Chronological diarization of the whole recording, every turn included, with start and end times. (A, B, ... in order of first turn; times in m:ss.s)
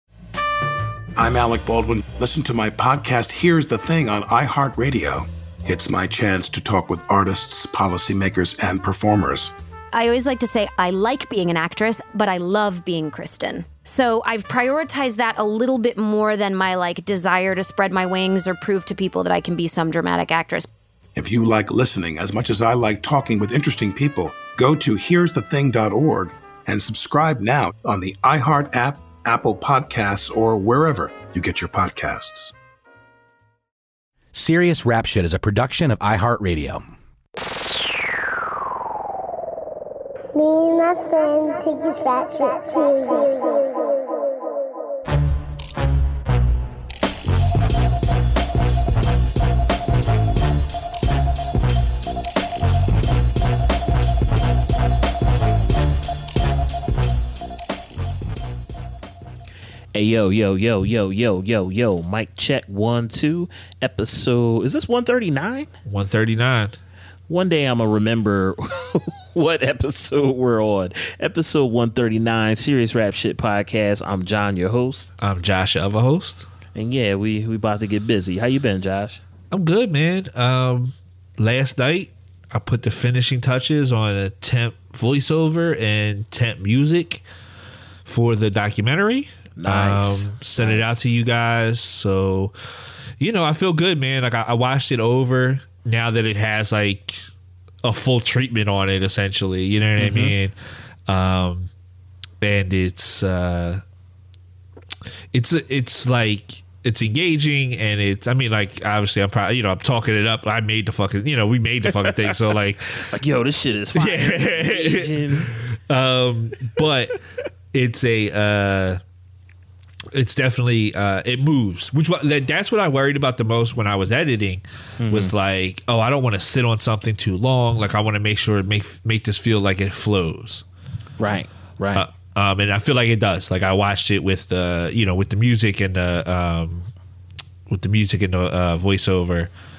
0:01.2-0:09.5 A
0:09.9-0:20.7 B
0:21.2-0:32.5 A
0:34.3-0:36.9 C
0:40.3-0:43.8 D
0:59.9-1:05.7 E
1:05.8-1:06.8 F
1:07.3-1:15.1 E
1:15.2-1:16.5 F
1:16.7-1:19.2 E
1:19.5-1:27.2 F
1:28.0-1:32.5 F
1:29.6-1:31.0 E
1:33.2-1:37.2 F
1:37.8-1:40.5 F
1:40.0-1:40.3 E
1:41.1-1:41.7 F
1:42.4-1:43.8 F
1:45.3-1:52.9 F
1:52.0-1:52.3 E
1:53.0-1:55.5 E
1:54.0-1:57.2 F
1:57.7-1:59.0 F
2:00.1-2:10.6 F
2:05.0-2:05.3 E
2:11.2-2:12.0 E
2:11.9-2:16.9 F
2:17.7-2:19.5 F